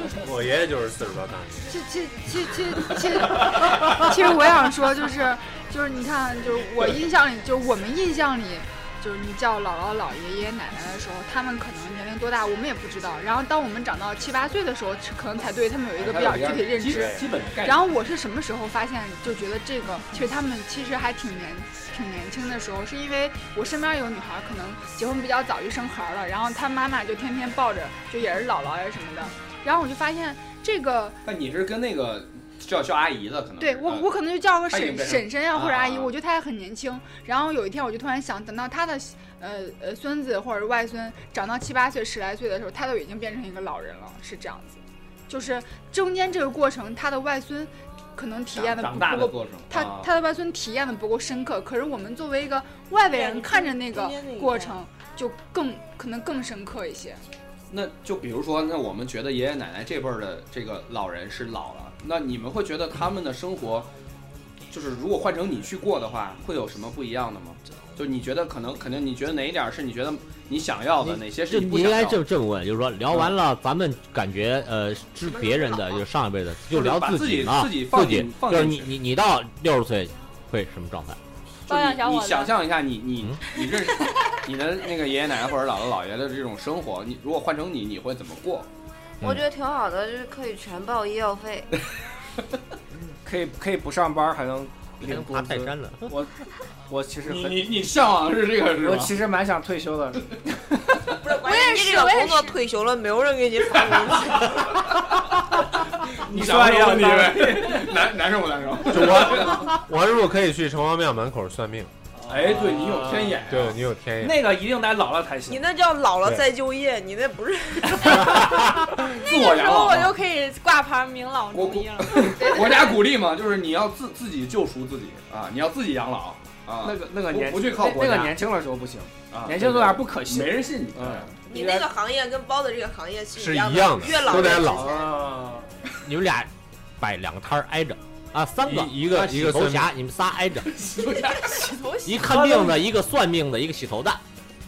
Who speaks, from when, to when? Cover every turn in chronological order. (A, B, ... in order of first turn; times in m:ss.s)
0:00.2-0:01.6 A
0:01.7-0:31.2 B
0:16.0-0:17.9 C
0:31.2-0:34.1 C
0:33.6-0:57.2 B
0:34.7-0:36.1 C
0:48.5-0:50.1 C
0:53.1-0:54.8 D
0:57.7-1:03.9 C
1:04.7-1:12.2 C
1:11.0-1:21.2 E
1:15.3-1:16.0 D
1:16.7-1:18.9 C
1:21.7-1:28.7 C
1:21.7-1:22.7 F
1:29.2-1:31.7 G
1:33.2-1:36.3 H
1:35.0-1:36.2 E
1:36.9-1:37.8 H
1:37.2-1:39.2 C
1:38.6-1:40.3 H
1:41.2-1:45.0 D
1:41.3-1:42.6 F
1:44.5-1:49.7 C
1:46.2-1:48.1 H
1:48.9-1:51.9 A
1:52.2-1:53.6 H
1:52.3-1:53.8 C
1:53.5-1:54.5 A
1:54.2-1:55.6 H
1:55.5-1:58.5 D
1:58.0-1:58.7 A
1:58.9-2:00.2 C
1:59.0-2:02.8 F
2:01.5-2:08.4 C
2:02.2-2:03.1 B
2:06.8-2:11.9 H
2:09.3-2:11.4 C
2:11.5-2:15.1 D
2:13.4-2:14.9 A
2:14.3-2:15.7 H
2:16.0-2:20.7 E
2:18.6-2:19.9 A
2:20.7-2:21.9 C
2:21.6-2:22.2 F
2:22.0-2:24.2 E
2:22.2-2:22.8 H